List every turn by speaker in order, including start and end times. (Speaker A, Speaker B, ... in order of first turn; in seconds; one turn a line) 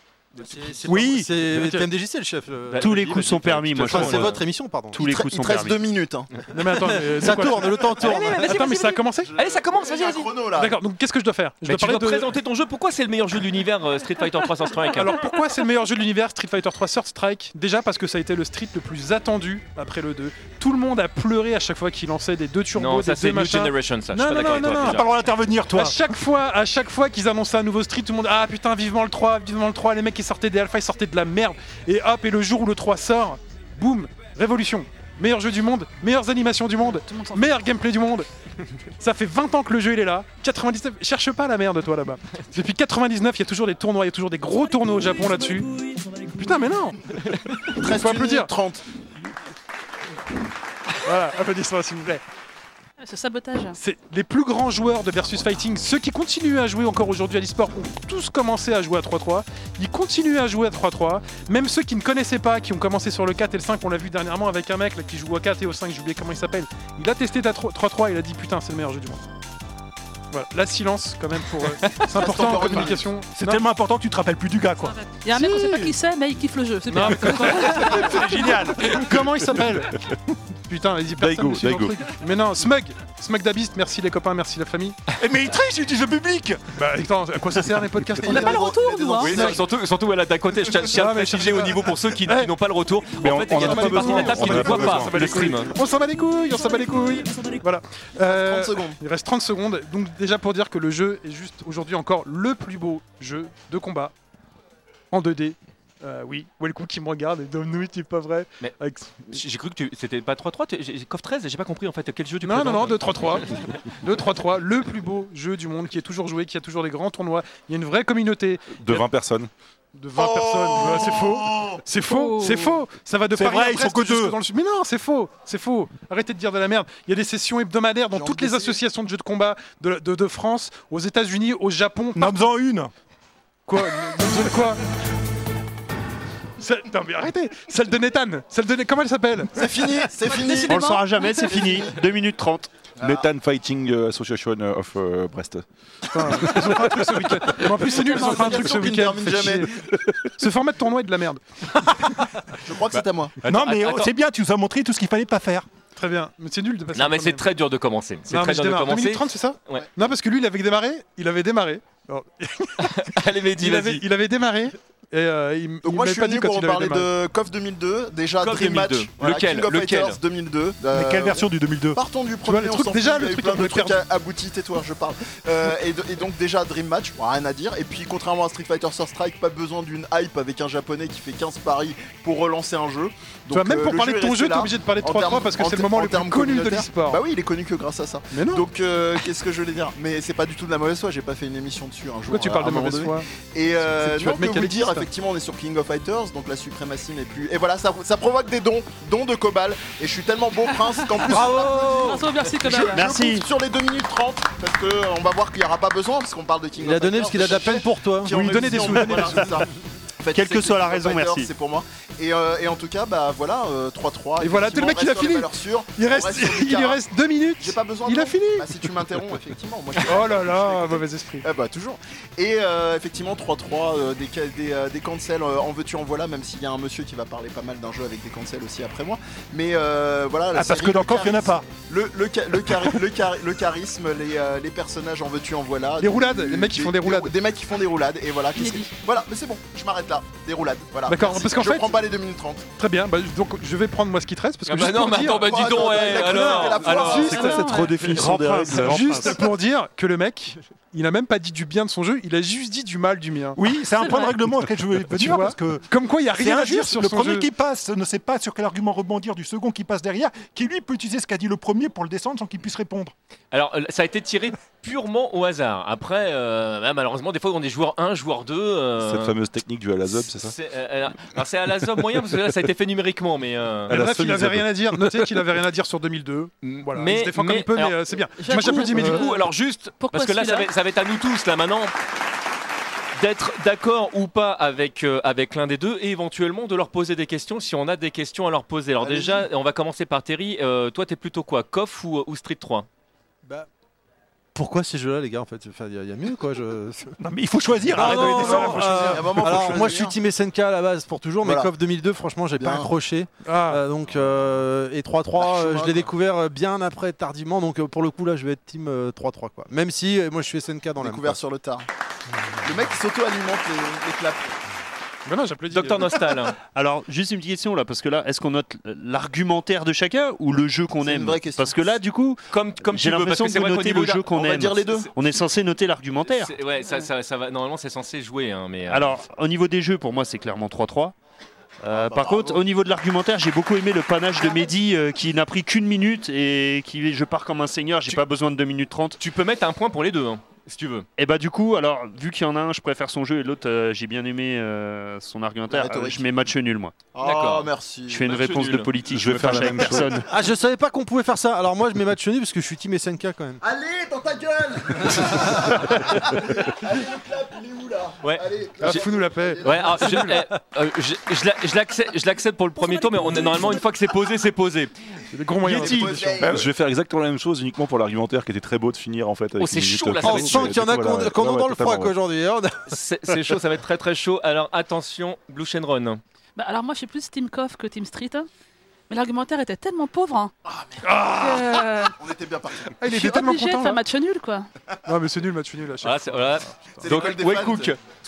Speaker A: 0.4-5.0
Speaker B: 0.9-1.9
Speaker C: 2.7-4.4
Speaker D: 2.8-4.3
Speaker D: 4.9-5.8
Speaker E: 5.0-6.3
Speaker B: 6.5-9.3
Speaker E: 6.9-7.3
Speaker A: 7.2-8.4
Speaker C: 8.0-10.3
Speaker E: 9.2-10.8
Speaker B: 10.5-12.3
Speaker C: 11.6-15.2
Speaker B: 14.8-25.1
Speaker C: 22.8-25.1
Speaker F: 24.8-26.0
Speaker B: 25.7-38.3
Speaker G: 36.9-37.6
Speaker B: 39.0-45.8
Speaker B: 46.3-47.2
Speaker E: 47.7-48.8
Speaker B: 47.8-48.5
Speaker B: 51.0-52.2
Speaker G: 53.0-53.8
Speaker B: 53.8-69.3
Speaker B: 70.3-73.7
Speaker E: 72.1-73.1
Speaker F: 73.3-75.0
Speaker G: 74.8-78.3
Speaker B: 75.3-76.0
Speaker B: 76.9-80.0
Speaker F: 77.4-79.3
Speaker B: 80.7-85.0
Speaker H: 81.2-82.0
Speaker F: 85.1-86.7
Speaker B: 86.8-89.6
Speaker E: 88.2-89.5
Speaker G: 88.2-89.5
Speaker C: 89.2-95.7
Speaker B: 90.9-92.5
Speaker H: 93.2-95.2
Speaker B: 93.5-104.1
Speaker E: 94.1-94.5
Speaker E: 98.2-99.0
Speaker B: 105.1-109.2
Speaker C: 109.3-113.8
Speaker B: 112.4-113.5
Speaker B: 114.0-119.1
Speaker H: 118.7-119.5
Speaker B: 120.0-132.4
Speaker E: 120.2-121.8
Speaker G: 122.0-122.8
Speaker F: 123.3-124.4
Speaker E: 128.1-128.8
Speaker F: 132.2-132.9
Speaker B: 133.7-134.8
Speaker B: 136.6-139.7
Speaker E: 139.6-140.9
Speaker G: 140.3-141.7
Speaker D: 140.7-142.8
Speaker E: 143.0-143.3
Speaker H: 143.0-145.7
Speaker B: 146.1-149.7
Speaker E: 147.6-149.9
Speaker G: 148.0-148.8
Speaker B: 150.4-152.2
Speaker E: 152.6-153.4
Speaker C: 152.9-154.1
Speaker F: 153.5-155.7
Speaker B: 156.0-157.4
Speaker C: 156.9-159.9
Speaker B: 158.3-167.1
Speaker C: 162.8-164.1
Speaker E: 165.8-201.8
Speaker C: 168.4-170.2
Speaker F: 170.9-172.0
Speaker B: 172.4-174.0
Speaker B: 183.5-187.2
Speaker B: 188.3-188.7
Speaker B: 192.3-193.3
Speaker B: 194.0-195.1
Speaker A: 201.3-202.3
Speaker G: 201.6-203.1
Speaker E: 202.6-217.1
Speaker D: 202.9-203.5
Speaker A: 206.8-208.6
Speaker B: 208.3-209.7
Speaker D: 210.3-211.5
Speaker B: 214.4-218.8
Speaker E: 217.6-242.7
Speaker B: 220.0-221.5
Speaker F: 230.5-231.7
Speaker B: 236.0-237.3
Speaker G: 238.6-238.9
Speaker B: 241.1-242.0
Speaker B: 242.8-247.8
Speaker C: 244.7-247.5
Speaker E: 245.4-247.7
Speaker G: 247.3-248.0
Speaker H: 247.6-249.4
Speaker D: 247.9-249.3
Speaker B: 248.8-254.1
Speaker F: 253.6-263.1
Speaker G: 254.0-254.3
Speaker B: 255.1-257.5
Speaker C: 263.5-269.4
Speaker H: 269.0-270.6
Speaker C: 270.1-274.0
Speaker H: 273.9-274.8
Speaker B: 273.9-279.3
Speaker C: 276.6-278.0
Speaker G: 278.4-279.4
Speaker C: 278.6-281.9
Speaker G: 280.0-280.7
Speaker C: 283.1-292.9
Speaker E: 289.0-289.5
Speaker A: 294.5-297.1
Speaker F: 297.2-299.1
Speaker A: 297.9-311.4
Speaker B: 297.9-299.9
Speaker E: 299.1-300.2
Speaker E: 301.4-301.7
Speaker E: 302.6-302.9
Speaker B: 303.4-303.8
Speaker E: 305.4-306.1
Speaker E: 311.0-311.9
Speaker E: 312.6-314.6
Speaker B: 315.3-316.2
Speaker C: 315.7-316.6
Speaker D: 316.8-326.5
Speaker E: 321.0-322.0
Speaker C: 322.5-325.1
Speaker E: 324.3-325.1
Speaker C: 326.2-329.2
Speaker D: 328.9-331.1
Speaker D: 331.8-339.2
Speaker E: 331.9-332.6
Speaker C: 339.2-341.1
Speaker D: 341.2-347.0
Speaker E: 345.7-346.4
Speaker E: 347.1-348.3
Speaker C: 347.2-347.7
Speaker D: 348.1-350.3
Speaker C: 348.2-348.9
Speaker H: 349.1-350.2
Speaker A: 350.2-353.6
Speaker E: 353.6-360.3
Speaker C: 358.2-359.0
Speaker B: 358.8-360.4
Speaker C: 359.6-364.9
Speaker G: 362.9-363.6
Speaker B: 365.3-366.5
Speaker C: 365.6-366.1
Speaker E: 365.6-366.7
Speaker H: 366.4-372.1
Speaker C: 369.6-370.8
Speaker A: 370.2-373.6
Speaker C: 372.9-376.2
Speaker G: 376.6-378.5
Speaker G: 379.1-380.5
Speaker E: 380.7-381.2
Speaker B: 381.1-381.8
Speaker G: 381.3-382.2
Speaker E: 382.1-382.9
Speaker B: 383.0-384.0
Speaker G: 383.1-384.7
Speaker B: 385.1-387.0
Speaker C: 386.0-388.0
Speaker E: 387.0-387.9